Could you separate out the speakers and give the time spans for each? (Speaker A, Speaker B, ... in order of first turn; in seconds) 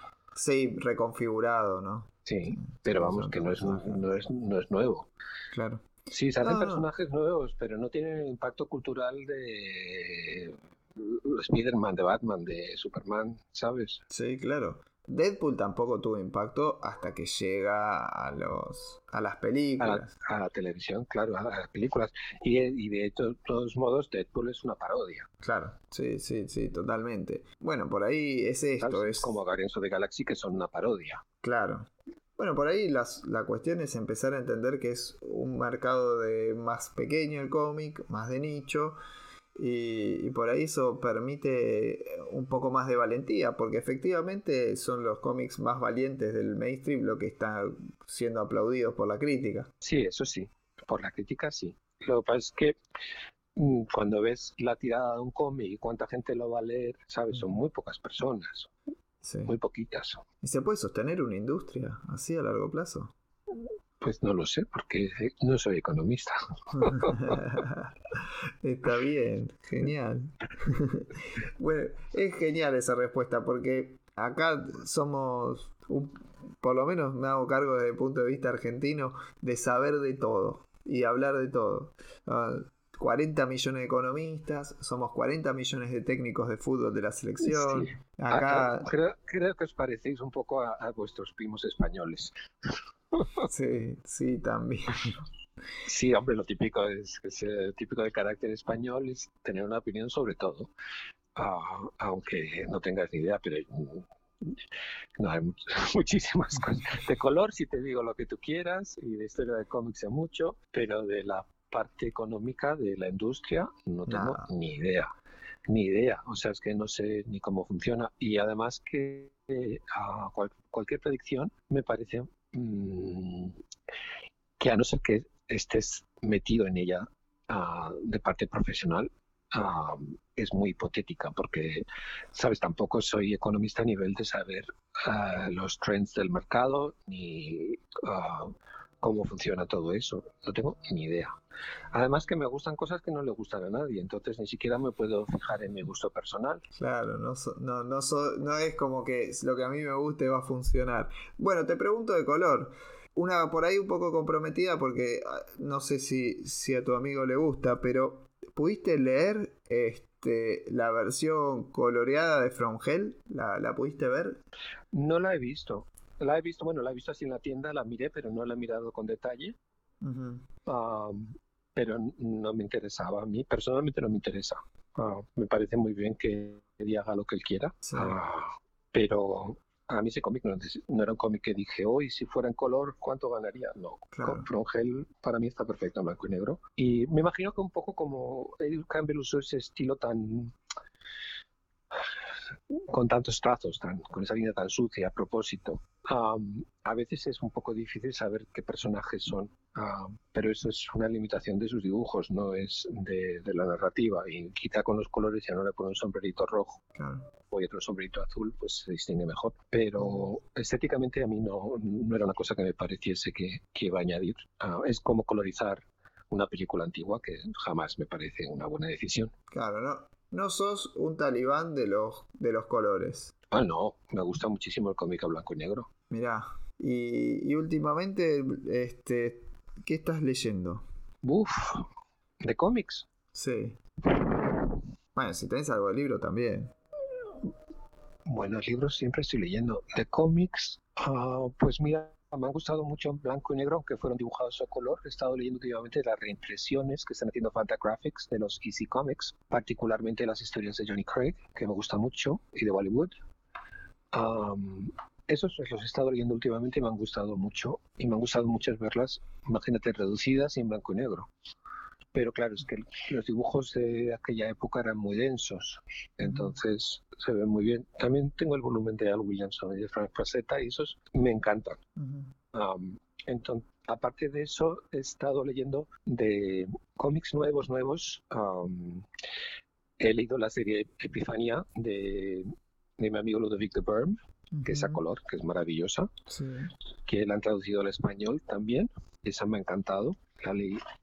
Speaker A: 0.3-4.0, 5.5-6.8, 14.1-20.1, 25.4-29.4, 31.4-39.0, 39.5-49.7, 59.2-59.5, 60.4-63.1, 66.8-88.9, 93.4-95.2, 114.1-114.5, 146.7-164.4, 170.0-170.5, 177.8-178.2, 184.1-184.5, 206.9-207.3, 210.0-210.2, 219.5-223.3, 226.1-230.8, 233.3-233.8, 235.1-236.7, 266.2-266.5, 272.0-272.3, 284.5-285.0, 286.3-286.7
Speaker B: 2.2-5.1, 6.1-14.0, 19.8-25.3, 28.8-31.2, 49.8-52.8, 53.5-58.7, 59.4-60.2, 64.0-67.4, 87.4-92.3, 95.8-100.7, 101.3-104.5, 105.2-115.1, 115.7-123.6, 124.6-141.4, 141.9-146.6, 164.9-169.6, 170.7-190.5, 192.9-206.8, 207.4-219.3, 223.5-225.9, 231.2-231.8, 232.4-233.1, 234.2-234.5, 238.2-253.1, 254.1-261.3, 262.1-271.8, 272.5-279.1, 280.0-286.1, 287.1-290.8